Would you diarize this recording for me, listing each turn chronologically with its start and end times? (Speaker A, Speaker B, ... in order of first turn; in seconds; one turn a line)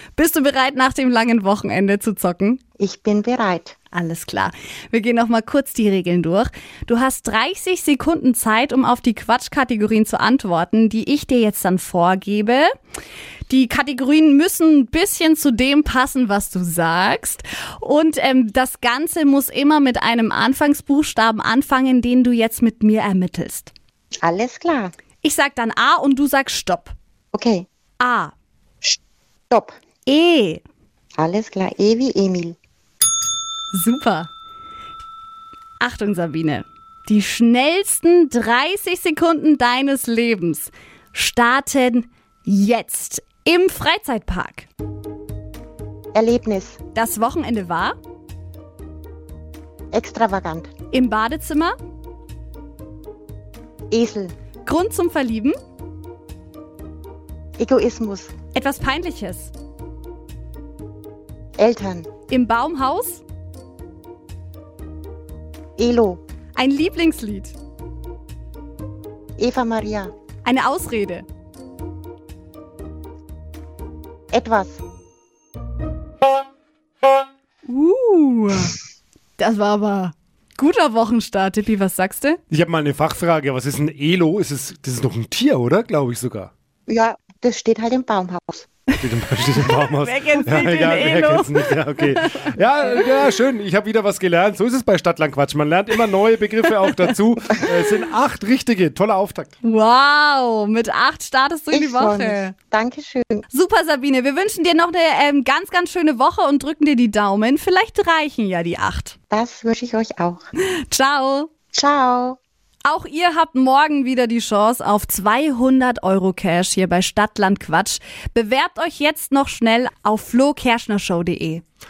Speaker A: 0.1-2.6
Speaker B: 2.8-3.7
Speaker A: 3.9-12.7
Speaker A: 13.5-23.7
Speaker B: 24.2-24.9
Speaker A: 25.2-26.9
Speaker B: 27.3-27.6
Speaker A: 28.0-28.3
Speaker A: 30.1-30.6
Speaker B: 31.2-32.5
Speaker A: 33.7-34.3
Speaker A: 35.8-44.7
Speaker B: 46.1-46.8
Speaker A: 46.9-48.0
Speaker B: 49.9-50.7
Speaker A: 50.9-51.7
Speaker B: 53.9-54.3
Speaker A: 54.6-55.5
Speaker B: 57.6-58.3
Speaker A: 58.5-59.5
Speaker B: 61.6-62.1
Speaker A: 62.3-63.2
Speaker B: 65.8-66.2
Speaker A: 66.5-67.5
Speaker B: 69.4-70.1
Speaker A: 70.4-71.2
Speaker B: 74.3-74.8
Speaker A: 77.7-78.8
Speaker A: 79.4-82.4
Speaker C: 82.5-86.5
Speaker B: 86.9-88.7
Speaker C: 89.0-99.5
Speaker A: 89.5-93.1
Speaker A: 96.8-97.1
Speaker A: 99.6-102.5
Speaker B: 101.7-103.4
Speaker A: 103.5-109.2
Speaker B: 109.3-110.4
Speaker A: 110.6-111.5
Speaker B: 111.7-112.4
Speaker A: 112.8-121.6